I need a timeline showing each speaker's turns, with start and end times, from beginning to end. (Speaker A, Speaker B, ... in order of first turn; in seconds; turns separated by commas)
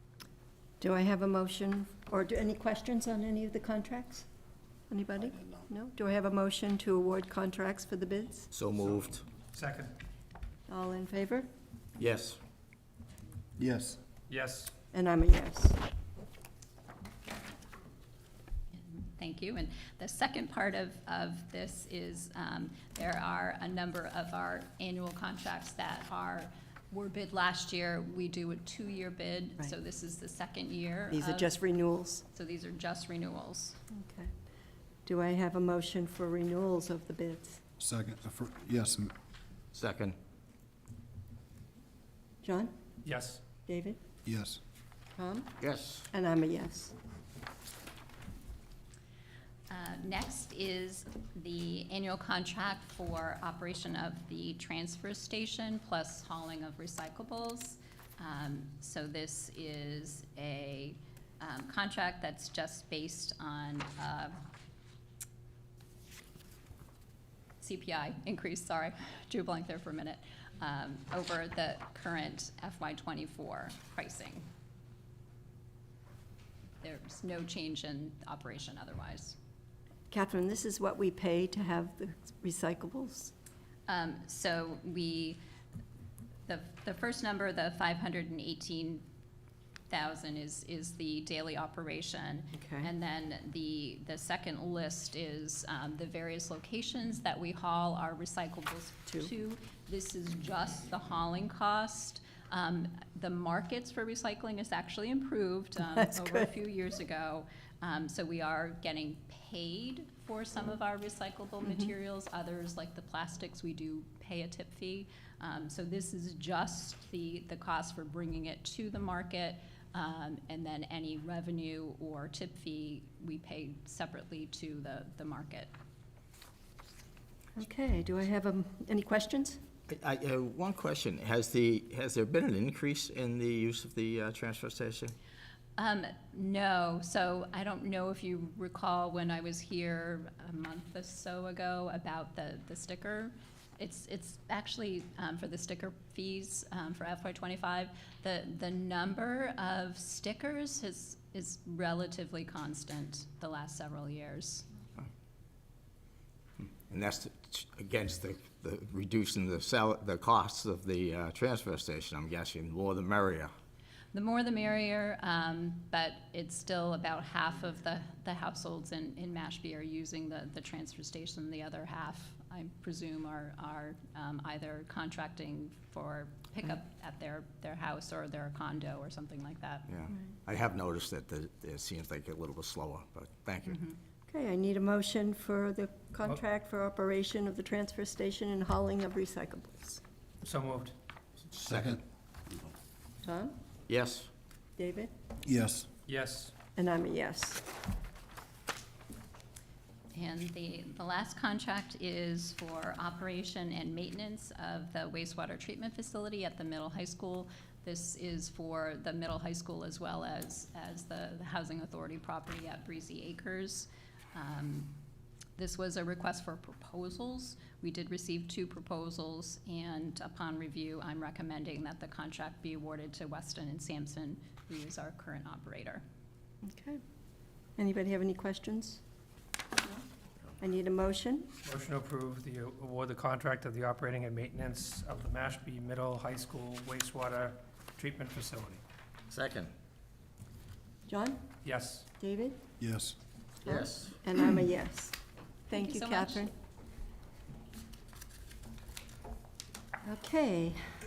Speaker A: 0.8-4.3, Speaker A: 4.9-8.5, Speaker B: 8.5-9.2, Speaker C: 8.8-9.9, Speaker A: 10.7-11.5, Speaker B: 12.0-12.4, Speaker D: 13.6-14.0, Speaker C: 14.3-14.7, Speaker A: 14.9-15.8, Speaker E: 18.7-31.5, Speaker A: 31.1-32.2, Speaker E: 32.3-33.8, Speaker A: 33.9-34.3, Speaker A: 35.1-37.6, Speaker D: 37.8-39.1, Speaker B: 39.7-40.2, Speaker A: 42.4-42.7, Speaker C: 43.0-43.4, Speaker A: 43.7-44.0, Speaker D: 44.3-44.6, Speaker A: 45.2-45.5, Speaker B: 45.6-46.1, Speaker A: 46.1-46.9, Speaker E: 49.7-64.4, Speaker E: 67.6-74.5, Speaker E: 76.8-79.4, Speaker A: 80.1-83.3, Speaker E: 83.9-85.4, Speaker E: 86.5-89.0, Speaker E: 89.9-125.7, Speaker A: 92.6-92.9, Speaker A: 105.9-106.5, Speaker A: 127.6-129.6, Speaker B: 129.9-135.1, Speaker E: 135.8-154.7, Speaker B: 156.9-163.5, Speaker E: 164.1-179.9, Speaker B: 179.9-183.8, Speaker E: 183.7-184.0, Speaker A: 184.3-190.0, Speaker C: 190.4-190.9, Speaker B: 191.5-192.0, Speaker D: 191.7-192.0, Speaker A: 193.2-193.5, Speaker B: 193.9-194.3, Speaker A: 194.8-195.1, Speaker D: 195.5-195.9, Speaker C: 196.1-196.5, Speaker A: 196.8-197.6, Speaker E: 200.1-214.9, Speaker E: 215.6-226.0, Speaker A: 226.6-227.0, Speaker A: 227.8-229.0, Speaker A: 230.6-231.5, Speaker C: 231.7-238.8, Speaker B: 239.3-239.7, Speaker A: 241.1-241.4, Speaker C: 241.7-242.1, Speaker A: 242.2-242.6, Speaker D: 242.8-243.2, Speaker B: 243.6-244.2, Speaker A: 243.7-245.2, Speaker A: 245.7-246.5, Speaker E: 245.7-246.5, Speaker A: 250.0-250.9